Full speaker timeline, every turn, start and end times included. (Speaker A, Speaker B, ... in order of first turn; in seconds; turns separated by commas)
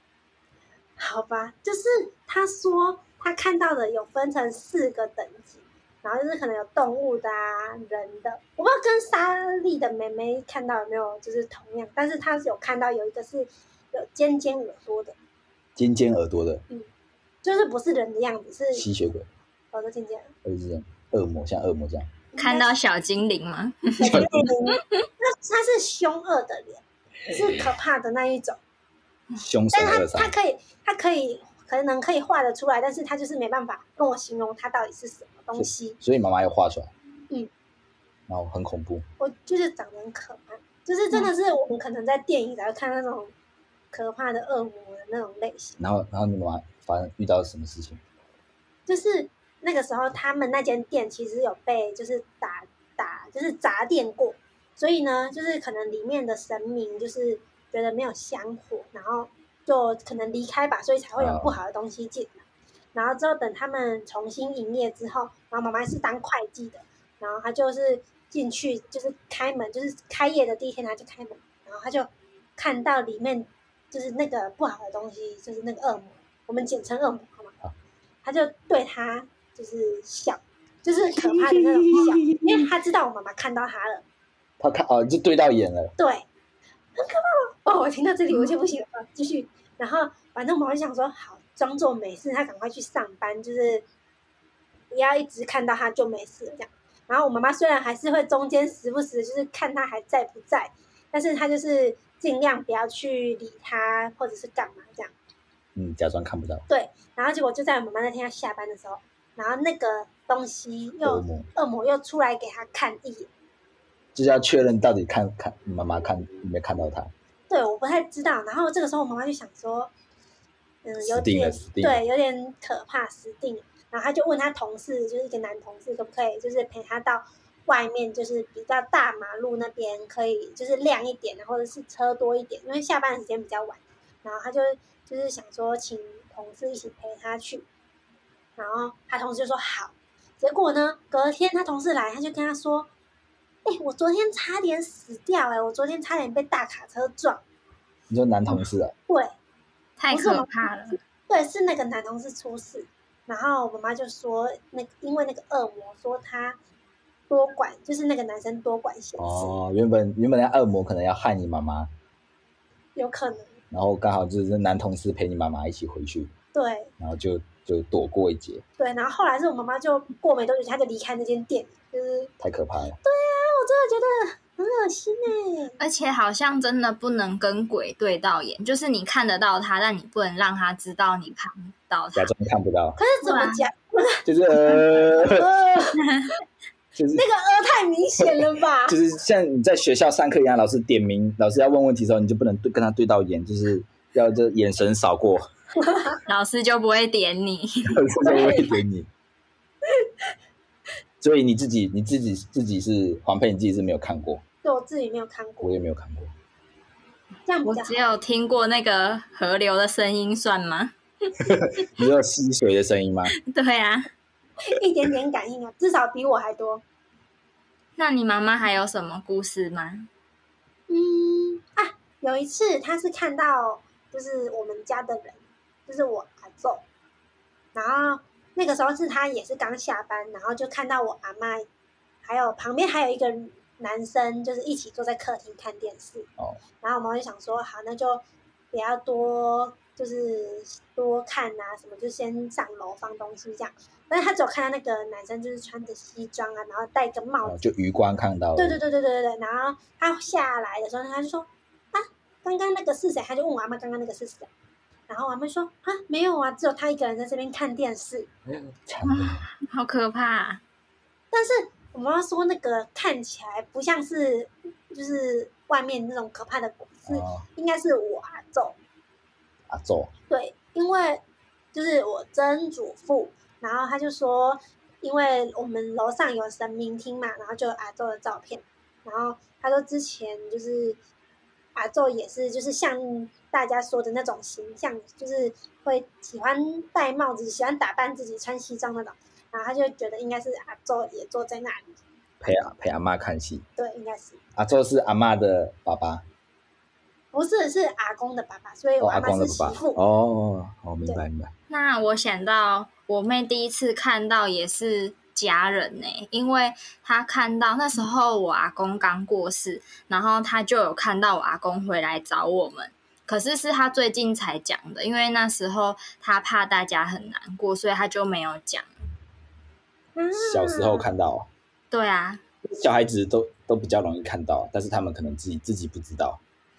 Speaker A: 1.0-15.2, Speaker B: 15.8-16.6, Speaker A: 17.4-18.9, Speaker B: 18.7-19.3, Speaker A: 19.7-20.3, Speaker B: 20.4-22.1, Speaker A: 22.3-22.7, Speaker C: 22.4-25.0, Speaker A: 24.0-28.6, Speaker B: 24.1-24.5, Speaker B: 27.3-27.7, Speaker B: 29.4-30.3, Speaker A: 29.7-36.0, Speaker B: 35.6-36.9, Speaker B: 38.3-39.0, Speaker A: 39.2-43.3, Speaker A: 43.9-45.8, Speaker B: 45.8-48.0, Speaker A: 48.9-62.4, Speaker B: 61.2-61.5, Speaker A: 63.0-77.5, Speaker A: 78.2-84.0, Speaker B: 81.2-82.7, Speaker B: 84.6-85.9, Speaker A: 86.0-86.3, Speaker A: 87.0-93.8, Speaker A: 94.9-105.1, Speaker B: 105.8-106.7, Speaker A: 106.7-113.3, Speaker B: 111.0-111.5, Speaker B: 114.2-117.1, Speaker A: 117.5-119.9, Speaker A: 120.8-137.7, Speaker B: 121.0-122.0, Speaker A: 138.6-142.9, Speaker A: 143.7-147.4, Speaker B: 148.1-148.9, Speaker C: 150.0-151.0, Speaker A: 150.1-150.7, Speaker A: 151.3-156.6, Speaker A: 157.3-159.6, Speaker B: 159.2-161.9, Speaker A: 163.0-163.6, Speaker B: 163.7-166.3, Speaker A: 166.5-166.9, Speaker B: 167.0-168.6, Speaker A: 168.8-172.3, Speaker B: 172.4-173.0, Speaker A: 173.0-175.8, Speaker C: 175.8-182.3, Speaker B: 182.2-183.0, Speaker A: 183.0-186.1, Speaker C: 183.2-183.6, Speaker B: 184.2-185.5, Speaker C: 186.0-186.3, Speaker B: 186.9-187.2, Speaker A: 187.2-189.0, Speaker B: 188.9-195.5, Speaker A: 195.8-196.2, Speaker C: 196.3-198.0, Speaker B: 197.9-199.1, Speaker A: 198.2-198.8, Speaker B: 201.2-204.4, Speaker A: 204.6-205.8, Speaker B: 205.6-206.3, Speaker A: 207.5-208.0, Speaker C: 207.7-211.3, Speaker B: 211.4-213.3, Speaker C: 213.5-214.1, Speaker A: 214.6-216.8, Speaker C: 218.0-220.1, Speaker A: 220.9-226.8, Speaker A: 227.8-231.7, Speaker A: 232.2-236.3, Speaker A: 236.8-247.6, Speaker B: 247.4-248.8, Speaker A: 248.6-254.5, Speaker A: 255.1-258.3, Speaker B: 258.5-259.4, Speaker C: 259.1-260.6, Speaker A: 261.3-268.8, Speaker B: 267.1-267.4, Speaker B: 269.7-270.1, Speaker A: 270.3-271.2, Speaker A: 271.7-281.0, Speaker A: 281.8-292.0, Speaker B: 292.4-293.6, Speaker A: 293.8-294.4, Speaker B: 294.6-296.2, Speaker A: 297.3-300.0, Speaker B: 299.0-301.5, Speaker C: 301.7-318.9, Speaker A: 320.2-321.1, Speaker B: 320.4-321.5, Speaker C: 321.9-322.4, Speaker B: 322.6-326.4